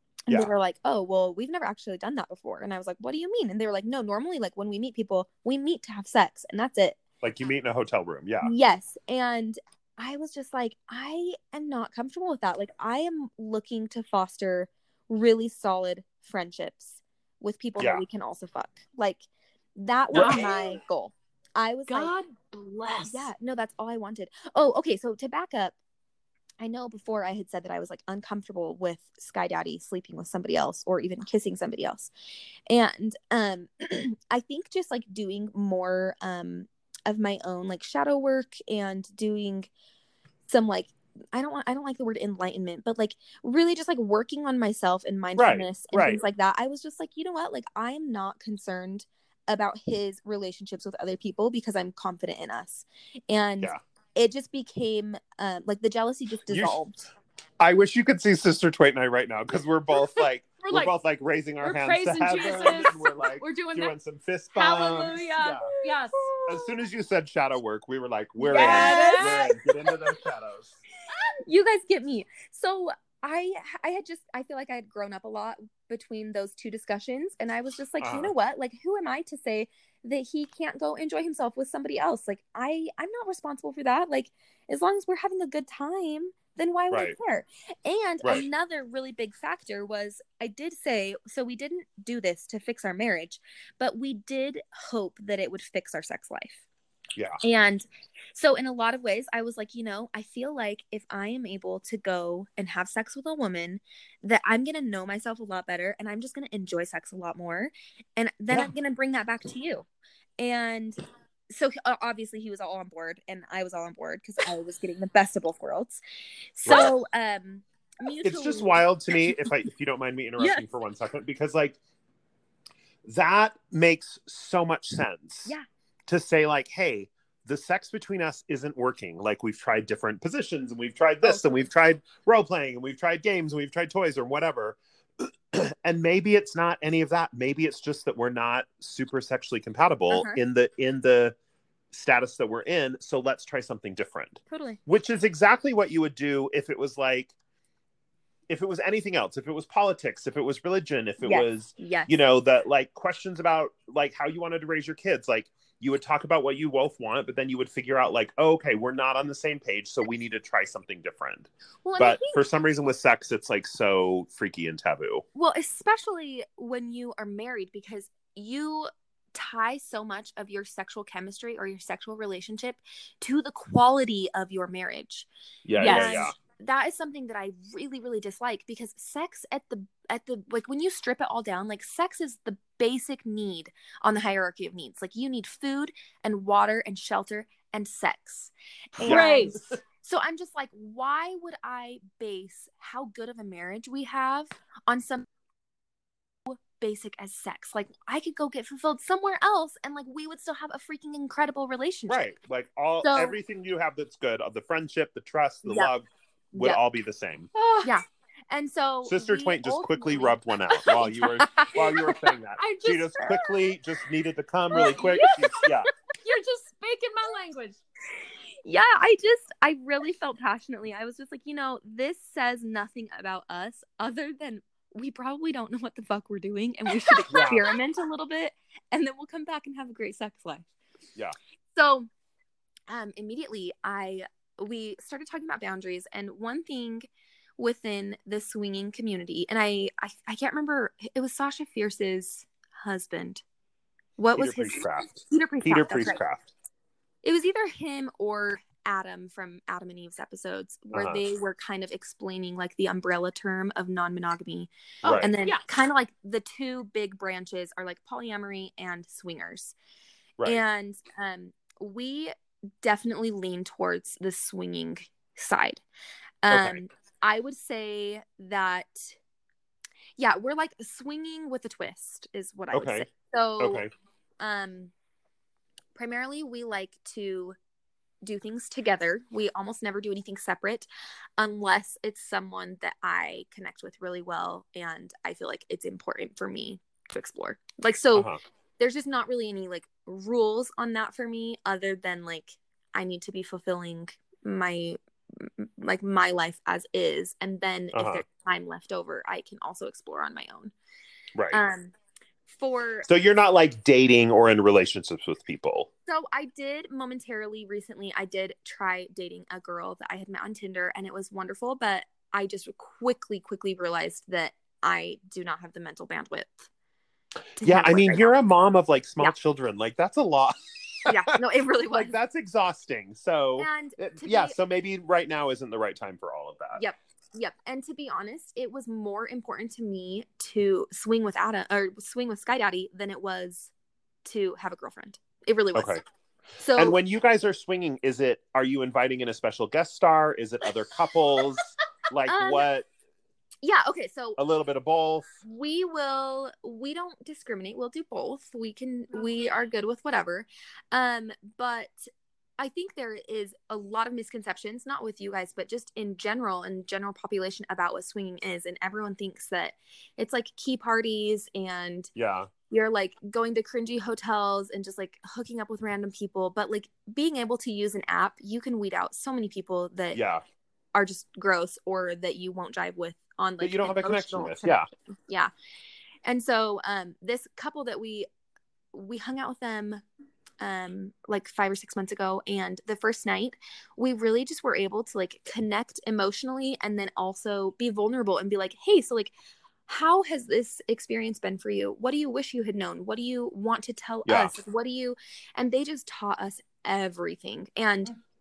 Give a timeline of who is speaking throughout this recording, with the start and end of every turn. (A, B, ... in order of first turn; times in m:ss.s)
0:00.3-0:07.0 A
0:07.2-0:08.5 B
0:08.4-0:22.1 A
0:17.8-0:18.0 B
0:20.1-0:20.4 B
0:20.1-0:20.8 C
0:21.9-0:23.3 C
0:23.0-0:25.8 A
0:26.6-0:32.1 A
0:32.7-0:39.7 A
0:40.5-0:57.1 A
0:45.4-0:46.2 B
0:56.5-0:56.8 B
0:57.6-1:05.7 B
1:00.2-1:00.9 C
1:01.6-1:03.9 C
1:04.5-1:06.4 C
1:05.8-1:06.7 A
1:06.5-1:10.8 B
1:08.4-1:09.9 A
1:08.5-1:09.4 C
1:11.4-1:36.6 A
1:18.0-1:18.3 B
1:26.9-1:27.2 B
1:37.4-1:49.8 A
1:50.4-1:56.0 A
1:56.5-1:59.3 A
1:56.6-1:56.9 B
1:58.2-2:01.8 B
2:03.0-2:05.5 B
2:06.1-2:21.4 B
2:20.1-2:20.4 A
2:21.9-2:27.3 B
2:24.5-2:24.8 A
2:28.5-2:45.2 B
2:31.2-2:32.2 A
2:41.8-2:42.4 A
2:45.3-2:55.3 A
2:55.6-2:56.3 B
2:55.8-2:56.3 C
2:55.8-3:15.2 A
3:09.0-3:09.6 B
3:09.1-3:09.5 C
3:16.4-3:22.3 A
3:22.1-3:27.5 B
3:23.0-3:23.4 A
3:25.6-3:25.9 A
3:26.5-3:26.8 A
3:27.5-3:27.9 C
3:27.8-3:32.2 A
3:29.0-3:35.9 B
3:32.6-3:33.4 C
3:34.7-3:35.7 A
3:34.8-3:35.6 C
3:36.2-3:37.8 C
3:38.6-3:50.7 A
3:47.3-3:47.7 B
3:51.7-3:52.1 A
3:52.9-4:03.4 A
4:04.2-4:06.2 A
4:04.4-4:06.5 B
4:07.2-4:19.8 A
4:10.9-4:11.2 B
4:15.0-4:15.3 B
4:20.4-4:25.8 A
4:26.4-4:29.2 A
4:26.5-4:26.8 B
4:30.2-4:33.8 A
4:32.7-4:33.1 B
4:33.6-4:33.9 B
4:34.4-4:34.9 A
4:35.9-4:37.6 A
4:38.2-5:00.7 A
4:48.1-4:48.4 B
4:57.9-4:58.2 B
5:01.5-5:01.9 A
5:02.5-5:03.1 A
5:03.0-5:05.9 B
5:06.1-5:16.7 A
5:17.6-5:26.8 B
5:17.6-5:18.3 A
5:21.0-5:22.2 A
5:23.6-5:24.6 A
5:26.8-5:33.7 A
5:34.2-5:36.0 A
5:35.7-5:36.0 B
5:36.6-5:37.0 A
5:36.8-5:42.9 B
5:42.3-5:42.7 A
5:43.6-5:44.4 A
5:44.4-5:45.3 B
5:45.4-6:02.1 A
6:02.2-6:02.5 B
6:02.7-6:10.2 A
6:10.1-6:10.4 B
6:10.9-6:15.5 A
6:13.6-6:14.9 B
6:16.2-6:18.3 A
6:18.9-6:20.0 A
6:20.6-6:29.3 A
6:29.9-6:38.1 A
6:34.2-6:34.5 B